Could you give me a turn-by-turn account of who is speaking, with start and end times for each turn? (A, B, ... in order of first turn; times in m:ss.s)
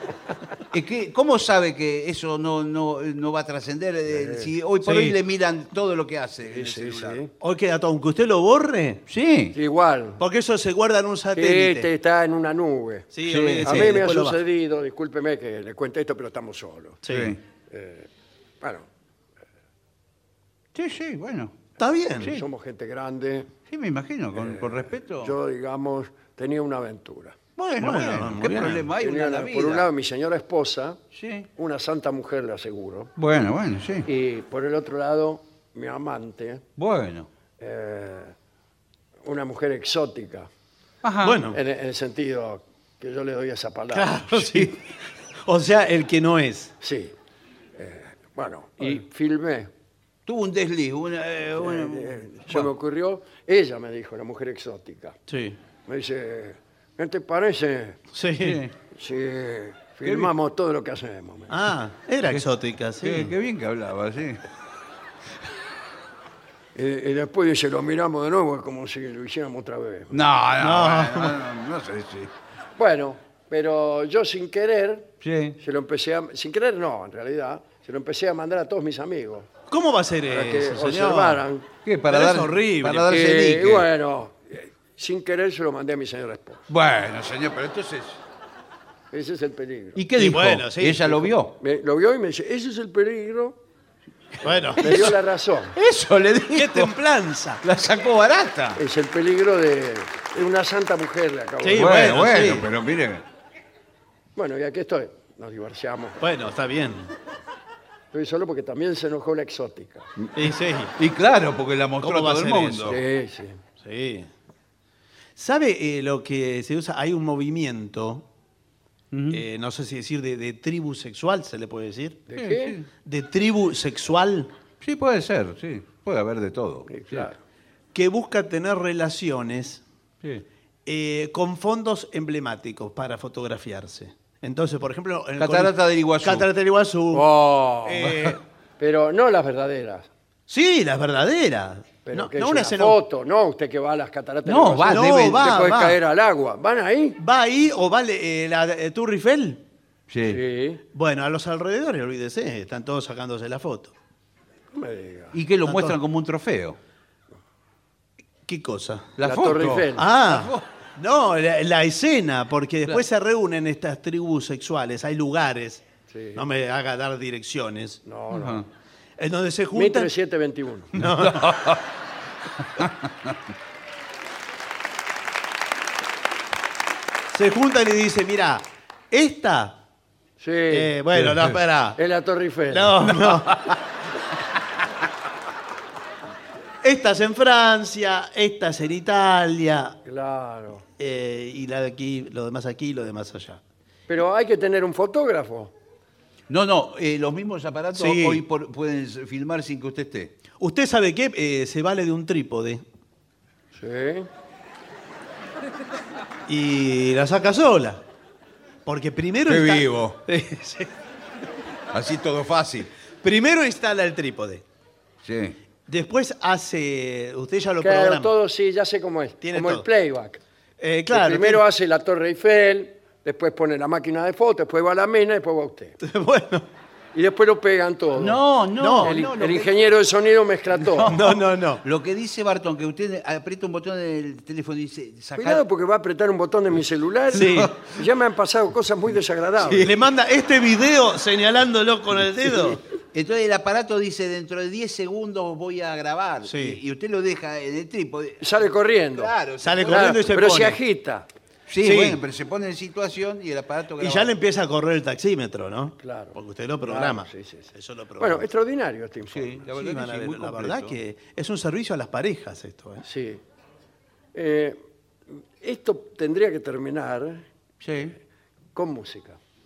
0:00.7-0:07.2 A
0:04.1-0:04.5 B
0:04.8-0:05.2 C
0:06.4-0:07.3 B
0:07.4-0:09.0 C
0:09.1-0:09.6 A
0:09.6-0:10.2 B
0:10.2-0:11.9 C
0:11.4-0:13.1 B
0:13.1-0:14.4 C
0:13.3-0:13.9 A
0:13.6-0:17.0 B
0:17.0-0:17.4 C
0:17.1-0:17.4 A
0:17.7-0:18.1 B
0:18.6-0:18.9 B
0:20.7-0:21.6 A
0:21.8-0:22.4 C
0:22.2-0:23.5 B
0:23.7-0:25.4 A
0:24.4-0:27.4 B
0:27.6-0:29.9 A
0:27.8-0:28.9 C
0:29.0-0:31.0 B
0:31.1-0:31.5 A
0:31.6-0:33.1 B
0:33.2-0:34.1 A
0:34.1-0:36.6 B
0:36.8-0:37.3 A
0:37.6-0:38.4 B
0:39.2-0:40.5 B
0:41.0-0:41.5 A
0:41.2-0:41.6 C
0:41.5-0:44.2 B
0:43.9-0:44.9 C
0:44.4-0:44.7 A
0:45.4-0:46.7 C
0:46.8-0:47.1 B
0:47.8-0:49.7 B
0:50.3-0:52.7 A
0:51.6-0:55.2 B
0:55.3-0:55.6 C
0:55.9-0:58.0 B
0:58.1-0:58.6 C
0:58.4-0:58.8 A
0:58.9-1:01.6 B
1:00.0-1:00.3 A
1:01.5-1:03.3 C
1:03.0-1:04.4 A
1:06.8-1:10.2 B
1:10.1-1:12.3 A
1:10.6-1:11.4 C
1:12.8-1:19.5 B
1:15.2-1:15.6 A
1:19.7-1:21.4 C
1:20.3-1:21.7 B
1:21.8-1:23.9 A
1:22.1-1:23.2 C
1:23.1-1:26.7 B
1:26.7-1:28.2 A
1:29.1-1:30.0 B
1:30.0-1:31.6 A
1:30.2-1:31.3 C
1:31.6-1:33.6 B
1:34.4-1:35.8 B
1:34.4-1:35.1 C
1:34.8-1:35.2 A
1:35.8-1:37.0 A
1:36.5-1:37.6 C
1:37.6-1:38.8 A
1:38.8-1:42.0 B
1:41.6-1:42.7 C
1:41.8-1:43.2 A
1:44.4-1:46.2 B
1:46.2-1:47.1 C
1:48.1-1:50.1 B
1:50.4-1:50.9 C
1:51.0-1:53.0 A
1:52.0-1:53.0 C
1:52.9-1:53.6 B
1:53.8-1:54.3 C
1:55.4-1:58.2 C
1:59.1-1:59.4 A
1:59.3-2:02.2 C
2:02.3-2:02.8 B
2:02.4-2:02.9 A
2:03.0-2:04.5 C
2:04.8-2:07.3 A
2:06.9-2:07.4 B
2:07.9-2:09.8 C
2:10.9-2:17.3 C
2:15.4-2:16.5 A
2:17.1-2:18.0 B
2:17.8-2:18.4 C
2:18.0-2:18.4 A
2:18.8-2:20.1 B
2:20.5-2:23.0 C
2:22.0-2:27.2 B
2:24.4-2:25.6 A
2:24.9-2:26.0 C
2:27.2-2:29.6 C
2:30.1-2:30.4 A
2:30.3-2:30.8 B
2:30.9-2:33.9 C
2:34.7-2:35.4 B
2:35.3-2:36.8 A
2:35.6-2:36.0 C
2:38.5-2:39.1 C
2:39.2-2:40.7 A
2:39.2-2:40.1 B
2:40.0-2:45.8 C
2:46.1-2:46.4 B
2:46.4-2:48.0 C
2:48.0-2:48.6 B
2:48.3-2:48.7 A
2:49.2-2:50.1 C
2:49.7-2:50.9 B
2:50.9-2:51.8 C
2:51.0-2:51.9 A
2:52.7-2:53.4 A
2:57.3-2:59.8 C
3:00.4-3:00.9 B
3:00.7-3:02.0 C
3:01.2-3:01.6 A
3:02.0-3:03.1 B
3:02.7-3:03.8 C
3:06.8-3:10.0 C
3:10.0-3:10.8 B
3:11.0-3:13.6 C
3:14.1-3:15.7 B
3:16.5-3:20.4 A
3:17.9-3:18.4 C
3:20.6-3:22.8 C
3:23.8-3:24.3 B
3:26.5-3:28.0 C
3:28.8-3:30.9 C
3:29.5-3:30.2 A
3:31.9-3:32.9 A
3:33.2-3:34.6 C
3:35.2-3:35.6 A
3:35.9-3:38.3 C
3:37.8-3:40.4 B
3:39.4-3:39.8 C
3:40.8-3:41.6 C
3:41.1-3:46.0 B
3:46.0-3:46.6 C
3:47.1-3:48.4 B
3:48.2-3:49.9 A
3:48.8-3:49.2 C
3:49.0-3:51.2 B
3:50.7-3:55.6 A
3:51.1-3:51.8 C
3:55.4-3:59.9 B
3:57.3-3:57.7 C
3:57.4-3:57.8 A
3:59.7-4:02.8 C
4:03.1-4:10.2 A
4:06.4-4:06.8 C
4:08.4-4:09.3 B
4:09.6-4:10.8 C
4:09.9-4:11.3 B
4:11.7-4:14.4 A
4:11.8-4:12.2 C
4:14.0-4:18.5 C
4:16.0-4:19.6 B
4:19.3-4:21.0 A
4:19.7-4:23.0 C
4:23.0-4:23.4 B
4:24.3-4:24.8 B
4:25.3-4:27.5 B
4:27.8-4:28.2 A
4:28.8-4:29.4 B